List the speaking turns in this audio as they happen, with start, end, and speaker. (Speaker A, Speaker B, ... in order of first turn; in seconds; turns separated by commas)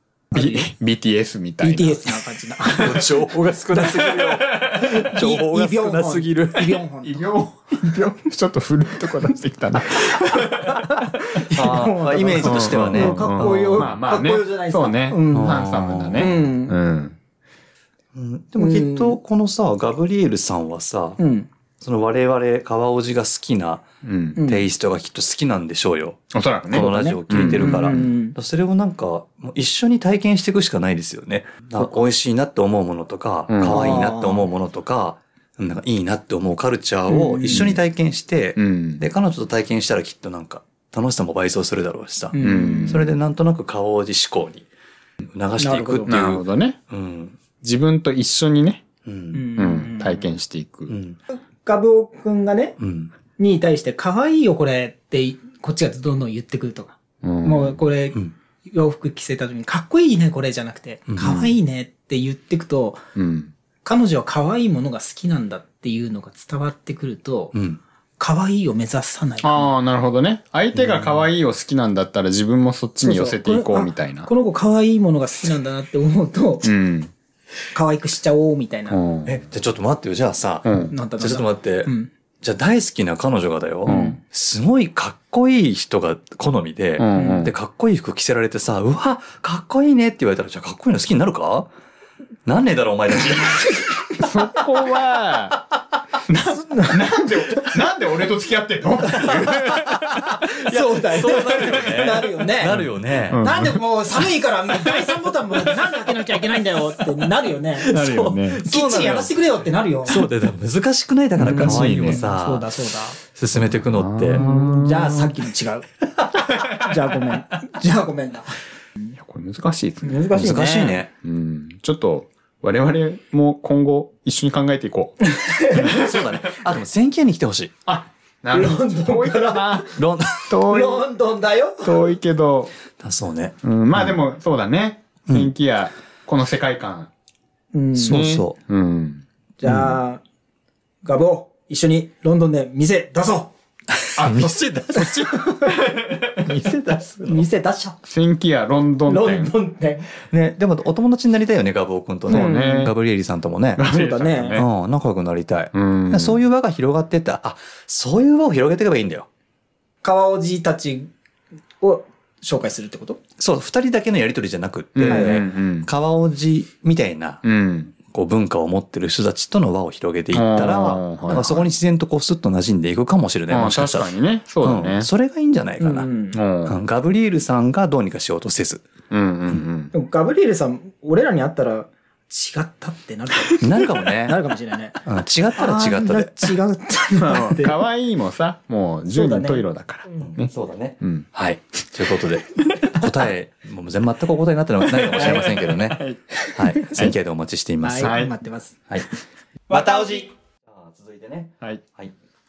Speaker A: 0.3-0.7, Speaker B: 0.3-2.2, Speaker A: 1.6-3.2, Speaker C: 2.8-6.8, Speaker A: 3.7-7.4, Speaker B: 4.6-4.9, Speaker B: 7.0-10.8, Speaker A: 10.0-16.8, Speaker C: 11.5-13.9, Speaker B: 12.4-17.2, Speaker C: 15.3-16.3, Speaker C: 18.1-21.2, Speaker A: 18.6-19.2, Speaker A: 21.2-21.5, Speaker C: 21.8-23.9, Speaker B: 24.0-24.4, Speaker A: 24.4-24.7, Speaker C: 24.4-44.7, Speaker B: 26.3-28.1, Speaker A: 26.7-28.4, Speaker B: 33.5-33.9, Speaker A: 33.6-34.5, Speaker A: 37.1-37.7, Speaker B: 37.5-37.8, Speaker B: 38.6-39.0, Speaker A: 42.3-43.0, Speaker B: 42.4-43.1, Speaker C: 45.2-47.4, Speaker A: 45.6-46.2, Speaker B: 46.1-46.8, Speaker B: 47.6-48.9, Speaker C: 49.0-49.5, Speaker A: 49.3-50.3, Speaker B: 49.6-50.9, Speaker C: 50.9-51.2, Speaker A: 51.3-52.8, Speaker C: 52.8-53.1, Speaker A: 53.4-63.0, Speaker B: 57.2-57.8, Speaker C: 61.1-61.5, Speaker B: 63.2-63.5, Speaker A: 63.8-67.5, Speaker C: 67.5-67.8, Speaker A: 68.2-69.7, Speaker B: 69.4-74.3, Speaker C: 70.8-71.3, Speaker A: 73.0-76.7, Speaker B: 76.6-77.1, Speaker A: 77.7-79.0, Speaker B: 78.9-79.4, Speaker C: 79.2-91.7, Speaker B: 80.6-80.9, Speaker A: 80.9-82.1, Speaker B: 83.8-84.2, Speaker A: 83.9-84.2, Speaker B: 87.0-87.5, Speaker A: 87.1-87.5, Speaker C: 92.5-93.9, Speaker B: 94.2-95.6, Speaker B: 96.3-100.0, Speaker A: 96.3-97.8, Speaker A: 99.2-102.9, Speaker C: 99.2-103.5, Speaker B: 103.3-103.8, Speaker A: 103.4-110.3, Speaker C: 107.8-109.4, Speaker B: 107.8-108.6, Speaker C: 110.0-112.7, Speaker B: 111.4-112.2, Speaker A: 111.4-113.2, Speaker C: 113.3-114.4, Speaker B: 113.7-115.3, Speaker A: 114.3-115.9, Speaker A: 116.6-118.6, Speaker B: 119.2-120.3, Speaker A: 120.0-121.0, Speaker C: 120.3-121.1, Speaker B: 121.2-125.2, Speaker A: 125.3-126.0, Speaker B: 125.8-126.4, Speaker C: 125.8-127.7, Speaker B: 127.9-131.1, Speaker A: 128.5-130.0, Speaker C: 130.0-130.5, Speaker A: 130.7-132.1, Speaker B: 131.8-132.7, Speaker C: 133.0-134.2, Speaker B: 133.6-137.1, Speaker A: 137.7-138.3, Speaker C: 138.0-138.6, Speaker B: 138.1-139.2, Speaker A: 139.6-140.2, Speaker A: 141.0-143.5, Speaker C: 143.9-145.4, Speaker B: 144.2-146.1, Speaker A: 145.0-145.8, Speaker A: 146.4-148.0, Speaker C: 146.5-147.4, Speaker B: 148.1-149.5, Speaker A: 149.1-150.1, Speaker C: 150.2-153.8, Speaker B: 152.3-152.9, Speaker A: 152.3-152.9, Speaker B: 153.8-154.7, Speaker A: 153.8-154.6, Speaker C: 154.5-159.3, Speaker B: 155.7-156.4, Speaker A: 160.0-161.1, Speaker A: 161.8-163.2, Speaker C: 163.4-167.4, Speaker B: 164.9-165.9, Speaker A: 165.1-165.4, Speaker B: 167.4-167.9, Speaker C: 168.1-176.1, Speaker B: 170.3-171.7, Speaker B: 173.5-175.1, Speaker A: 175.8-176.4, Speaker B: 176.3-176.8, Speaker C: 176.7-178.9, Speaker B: 179.1-179.9, Speaker A: 179.9-187.8, Speaker C: 183.6-184.4, Speaker C: 185.1-186.6, Speaker B: 187.2-190.5, Speaker A: 189.1-189.7, Speaker C: 190.2-196.0, Speaker B: 191.0-191.3, Speaker B: 195.0-196.3, Speaker A: 195.2-195.5, Speaker A: 196.5-197.0, Speaker C: 196.5-198.2, Speaker A: 197.8-198.8, Speaker B: 198.0-198.3, Speaker C: 199.7-202.1, Speaker A: 199.7-200.2